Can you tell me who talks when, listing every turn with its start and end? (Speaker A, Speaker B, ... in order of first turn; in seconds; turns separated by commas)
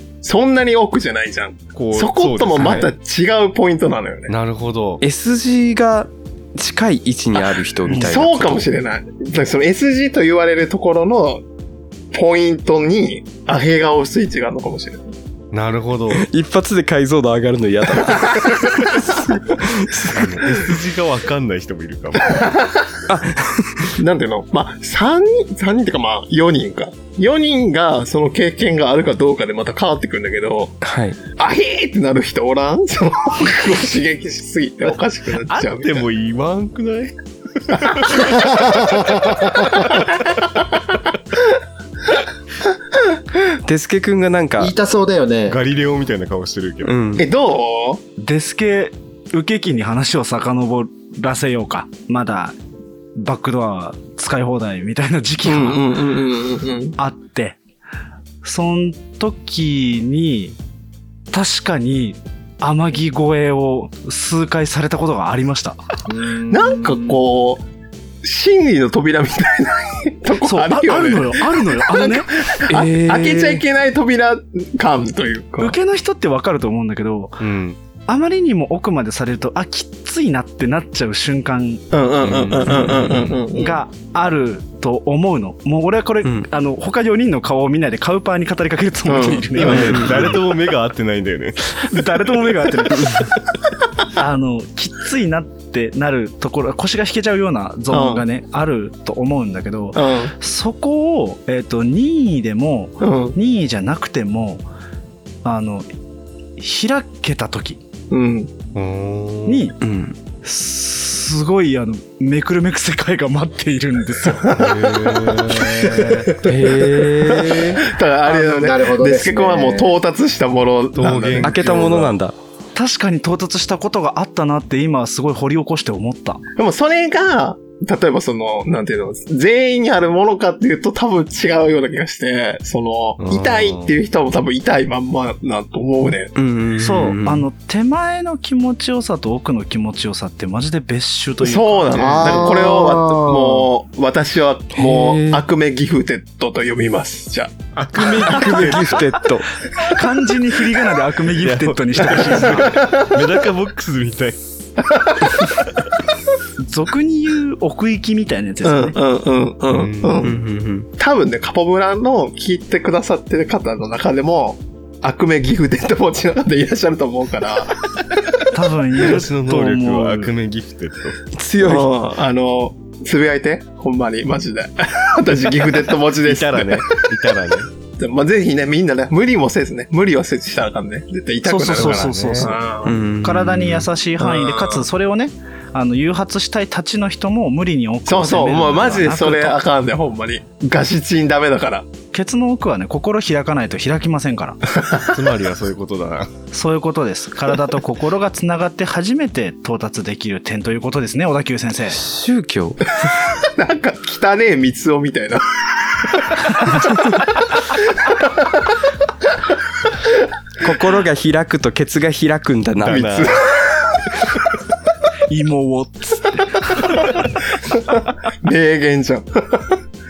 Speaker A: 0.2-4.3, Speaker B: 1.8-2.9, Speaker B: 4.3-5.0, Speaker C: 5.0-8.7, Speaker A: 7.4-11.4, Speaker A: 12.1-15.1, Speaker B: 15.5-16.3, Speaker C: 16.2-20.3, Speaker B: 20.0-22.5, Speaker A: 22.3-22.9, Speaker C: 23.1-23.9, Speaker A: 24.0-30.8, Speaker C: 30.8-31.2, Speaker A: 31.4-36.0, Speaker B: 35.5-39.7, Speaker D: 38.2-39.7, Speaker C: 43.7-44.7, Speaker D: 44.6-45.6, Speaker B: 45.5-47.1, Speaker C: 46.8-47.3, Speaker A: 47.2-48.0, Speaker E: 48.2-52.5, Speaker E: 53.2-55.9, Speaker A: 55.5-57.0, Speaker E: 57.0-57.6, Speaker E: 58.4-60.6, Speaker E: 61.3-65.8, Speaker D: 66.1-67.1, Speaker A: 66.5-67.6, Speaker A: 68.2-75.8, Speaker E: 70.4-72.3, Speaker C: 72.7-73.6, Speaker E: 75.6-77.4, Speaker B: 77.4-77.8, Speaker E: 78.1-81.9, Speaker A: 81.9-83.8, Speaker B: 82.2-83.3, Speaker E: 83.5-90.4, Speaker A: 89.1-90.4, Speaker B: 89.5-91.9, Speaker C: 89.9-90.2, Speaker E: 91.8-93.3, Speaker E: 94.2-104.6, Speaker A: 97.9-98.2, Speaker A: 100.0-100.3, Speaker A: 103.0-103.4, Speaker E: 105.4-105.9, Speaker E: 106.6-107.8, Speaker A: 108.1-108.5, Speaker B: 108.8-109.7, Speaker E: 109.5-109.8, Speaker C: 109.8-110.2, Speaker E: 110.4-114.5, Speaker A: 114.4-115.6, Speaker B: 114.6-116.2, Speaker C: 115.2-115.8, Speaker D: 115.8-116.5, Speaker C: 116.4-117.8, Speaker A: 117.3-122.0, Speaker D: 118.3-120.0, Speaker B: 121.0-122.1, Speaker C: 121.4-122.3, Speaker E: 122.8-126.4, Speaker A: 126.6-136.3, Speaker B: 133.2-134.0, Speaker C: 136.3-137.4, Speaker E: 136.8-142.5, Speaker A: 141.4-147.6, Speaker D: 141.9-143.7, Speaker C: 144.8-145.4, Speaker B: 147.8-149.1, Speaker C: 147.9-149.5, Speaker E: 149.8-152.8, Speaker B: 151.4-154.4, Speaker A: 152.4-153.2, Speaker A: 154.8-155.4, Speaker E: 156.6-159.0, Speaker A: 158.6-160.4, Speaker B: 159.7-160.4, Speaker C: 160.2-160.9, Speaker A: 161.0-168.0, Speaker E: 168.5-170.3, Speaker B: 169.0-171.2, Speaker C: 171.3-171.9, Speaker A: 171.6-176.8, Speaker B: 176.2-177.7, Speaker A: 178.0-183.0, Speaker E: 181.4-182.6, Speaker B: 181.7-182.6, Speaker C: 182.8-183.9, Speaker E: 183.2-189.6, Speaker A: 184.2-184.8, Speaker A: 188.1-191.9, Speaker E: 192.1-194.6, Speaker B: 195.1-196.3, Speaker E: 196.5-202.0, Speaker C: 201.9-202.8, Speaker A: 203.4-205.4, Speaker A: 208.0-208.3, Speaker C: 210.6-213.1, Speaker B: 212.8-213.4, Speaker A: 212.9-213.9, Speaker E: 215.3-217.1, Speaker A: 217.7-219.7